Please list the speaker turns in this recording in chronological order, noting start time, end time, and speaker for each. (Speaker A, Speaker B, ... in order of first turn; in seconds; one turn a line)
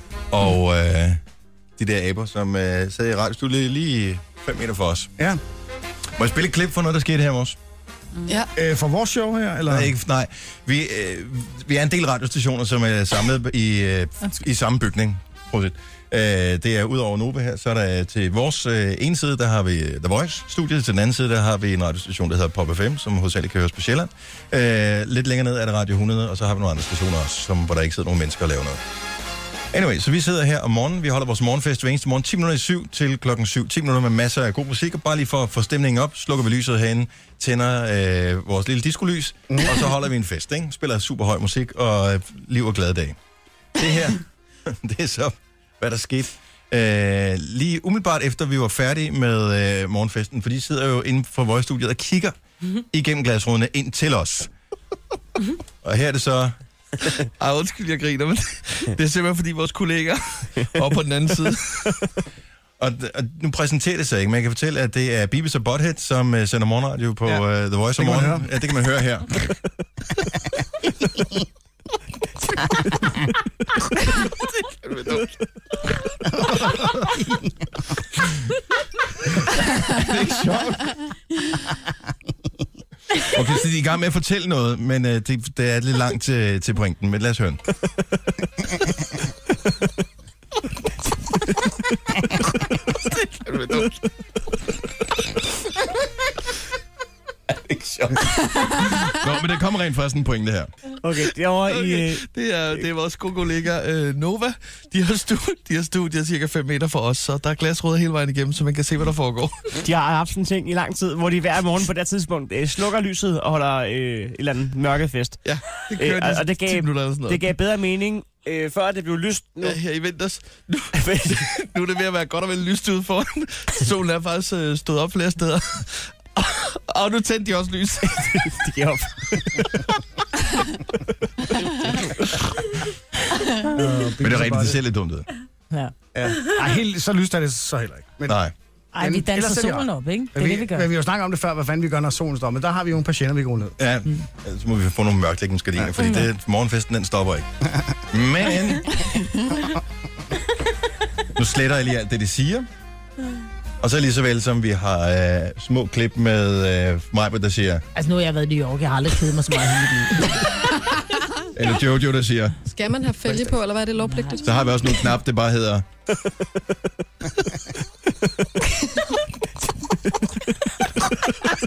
Speaker A: 0.3-1.2
Speaker A: 1.8-5.1
Speaker A: 6.2-7.6
Speaker B: 8.6-9.9
Speaker A: 9.7-28.8
Speaker A: 29.7-43.2
Speaker B: 39.5-39.9
Speaker A: 43.8-54.5
Speaker A: 55.8-56.6
Speaker C: 57.4-62.0
Speaker A: 62.8-69.3
Speaker B: 68.0-68.5
Speaker B: 76.3-77.4
Speaker B: 80.0-81.0
Speaker A: 83.3-87.6
Speaker A: 99.1-100.7
Speaker D: 101.0-102.3
Speaker C: 101.5-109.8
Speaker D: 109.8-115.4
Speaker C: 115.4-117.6
Speaker D: 115.9-119.8
Speaker C: 119.6-129.8
Speaker D: 121.0-121.3
Speaker D: 128.5-129.4
Speaker D: 131.6-131.9
Speaker C: 131.6-132.1
Speaker B: 133.7-134.8
Speaker A: 134.2-135.3
Speaker B: 136.1-138.4
Speaker A: 138.3-138.5
Speaker E: 138.9-140.9
Speaker B: 139.0-143.8
Speaker A: 143.8-147.5
Speaker A: 148.1-149.0
Speaker A: 151.4-152.7
Speaker A: 153.8-157.8
Speaker E: 157.9-160.4
Speaker A: 161.6-162.6
Speaker F: 162.6-164.6
Speaker B: 163.3-163.5
Speaker A: 164.4-165.9